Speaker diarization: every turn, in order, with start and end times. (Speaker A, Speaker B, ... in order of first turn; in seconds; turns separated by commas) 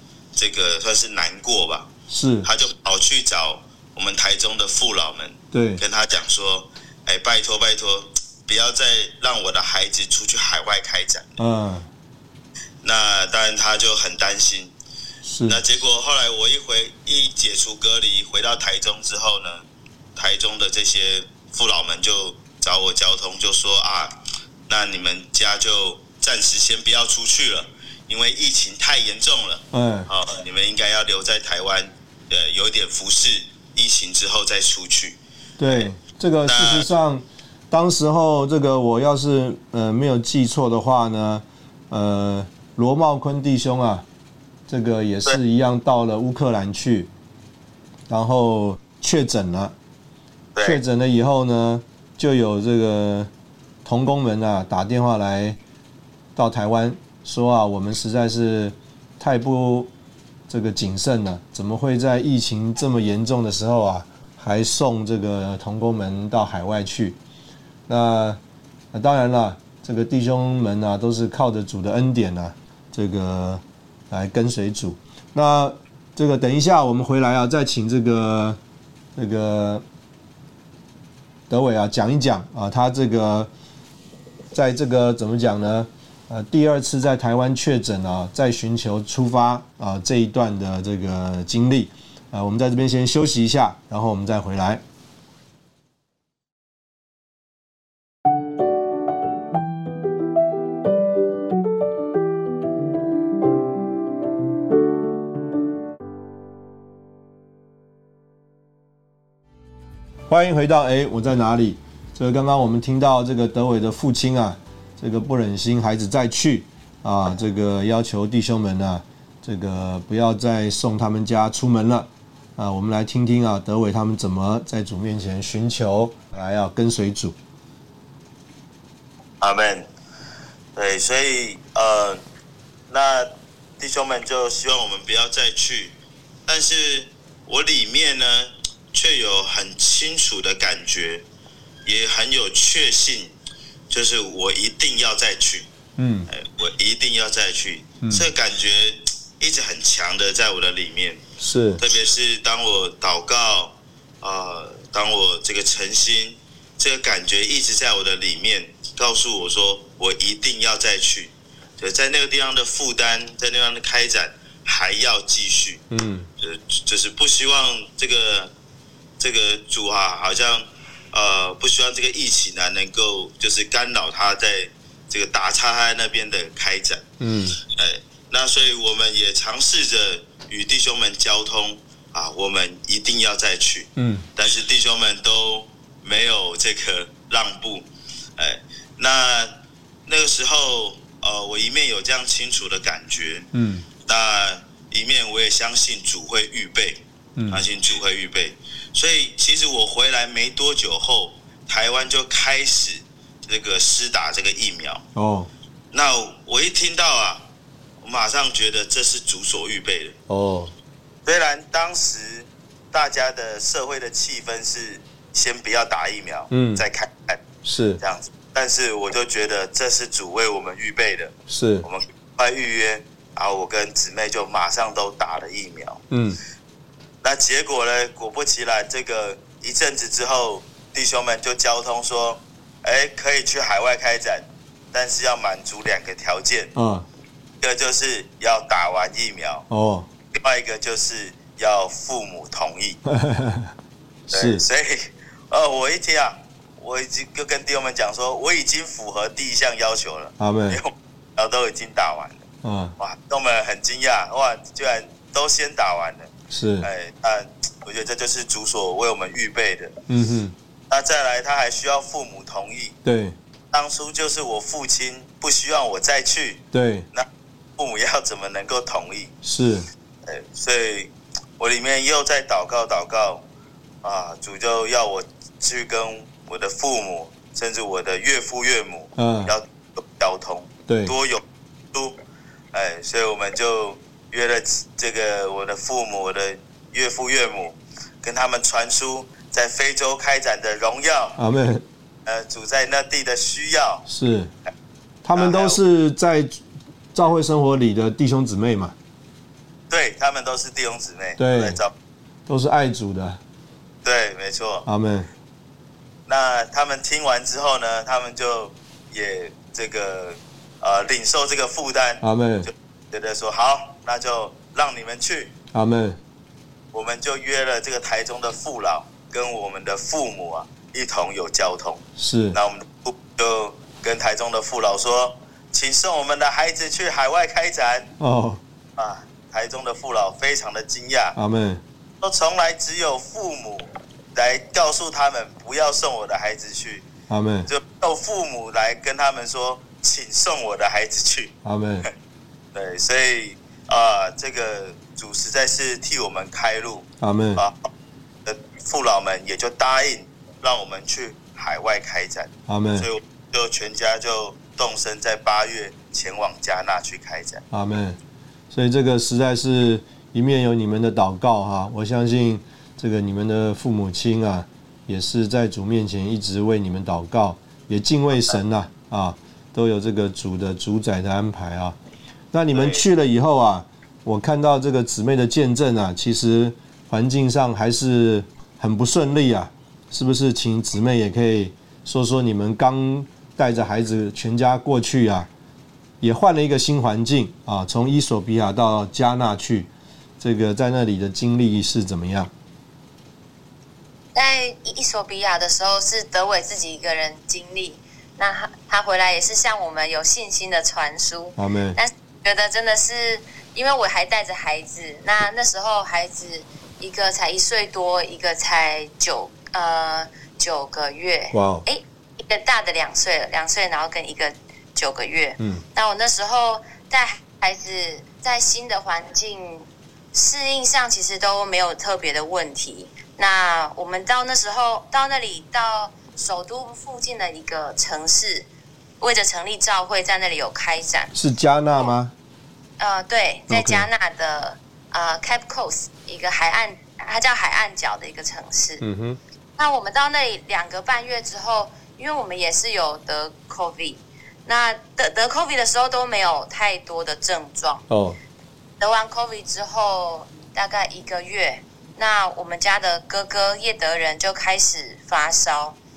Speaker A: 0.3-1.9, Speaker B: 2.1-2.5, Speaker A: 2.4-11.4, Speaker B: 5.5-5.8, Speaker B: 11.4-11.9, Speaker A: 12.8-14.7, Speaker B: 15.2-15.6, Speaker A: 15.5-19.6, Speaker A: 20.1-24.1, Speaker A: 24.7-35.2, Speaker B: 29.7-30.1, Speaker B: 35.6-44.0, Speaker A: 36.5-36.9, Speaker B: 44.7-47.1, Speaker B: 48.1-49.7, Speaker A: 50.5-50.8, Speaker B: 50.6-53.3, Speaker B: 53.8-55.6, Speaker B: 56.4-59.9, Speaker B: 60.5-67.2, Speaker B: 67.9-68.4, Speaker B: 68.9-78.6, Speaker B: 79.2-79.8, Speaker B: 81.5-83.5, Speaker B: 84.5-94.8, Speaker B: 110.3-127.3, Speaker A: 129.4-129.9, Speaker A: 130.8-132.2, Speaker A: 132.9-135.9, Speaker A: 136.5-141.2, Speaker A: 141.8-143.3, Speaker A: 143.9-145.7, Speaker B: 146.0-146.3, Speaker A: 146.3-151.2, Speaker B: 148.0-148.3, Speaker B: 151.4-151.8, Speaker A: 151.8-165.8, Speaker B: 165.9-166.3, Speaker A: 166.4-168.5, Speaker A: 169.2-177.1, Speaker B: 177.2-177.6, Speaker A: 177.6-187.8, Speaker B: 184.0-184.2, Speaker A: 188.4-189.5, Speaker A: 190.1-193.5, Speaker B: 193.5-193.9, Speaker A: 194.0-205.0, Speaker B: 197.3-197.7, Speaker B: 205.2-205.5, Speaker A: 205.9-207.5, Speaker A: 208.0-210.2, Speaker B: 210.3-210.7, Speaker A: 211.2-217.4, Speaker B: 216.5-216.8, Speaker B: 217.6-218.0, Speaker A: 218.0-226.0, Speaker B: 221.5-221.8, Speaker B: 226.1-226.4, Speaker A: 227.2-236.7, Speaker B: 236.8-237.1, Speaker A: 237.6-239.7, Speaker B: 239.7-240.1, Speaker A: 240.3-243.0, Speaker B: 243.1-243.7, Speaker B: 244.3-244.6, Speaker A: 244.3-252.4, Speaker B: 250.4-250.8, Speaker B: 252.6-252.9, Speaker A: 253.0-256.3, Speaker B: 256.5-256.9, Speaker A: 256.8-259.9, Speaker B: 260.1-260.5, Speaker A: 260.9-263.0, Speaker B: 263.0-263.4, Speaker A: 263.7-267.2, Speaker B: 266.7-267.1, Speaker A: 267.8-269.3, Speaker B: 269.4-269.9, Speaker A: 270.3-273.4, Speaker A: 274.0-281.4, Speaker B: 279.1-279.5, Speaker B: 280.9-281.1, Speaker A: 282.7-291.4, Speaker B: 291.4-291.8, Speaker A: 292.2-294.0, Speaker B: 294.1-294.5, Speaker B: 295.2-296.6, Speaker A: 295.3-295.8, Speaker B: 297.1-298.9, Speaker A: 299.9-301.9, Speaker B: 301.4-301.8, Speaker B: 302.5-303.4, Speaker A: 304.0-304.8, Speaker B: 304.8-305.3, Speaker A: 306.3-312.2, Speaker B: 312.2-312.7, Speaker A: 313.1-315.5, Speaker B: 315.7-316.2, Speaker A: 316.9-328.1, Speaker B: 322.2-322.6, Speaker B: 328.2-328.6, Speaker A: 329.0-331.4, Speaker B: 331.3-331.8, Speaker A: 332.2-337.1, Speaker B: 337.3-337.7, Speaker A: 337.7-341.5, Speaker B: 341.6-342.1, Speaker A: 342.7-347.0, Speaker B: 347.2-347.6, Speaker A: 347.6-347.9, Speaker A: 348.4-357.6, Speaker B: 352.7-353.1, Speaker B: 357.7-358.2, Speaker B: 358.7-372.0, Speaker B: 372.5-385.5, Speaker A: 372.7-373.0, Speaker B: 386.2-392.5, Speaker C: 394.3-428.7, Speaker B: 401.6-402.0, Speaker B: 411.5-411.8, Speaker B: 415.6-415.8, Speaker C: 429.2-431.3, Speaker B: 431.3-432.3, Speaker C: 433.0-439.0, Speaker B: 433.7-434.1, Speaker B: 439.0-439.4, Speaker C: 439.8-448.0, Speaker B: 448.1-448.4, Speaker C: 449.0-456.0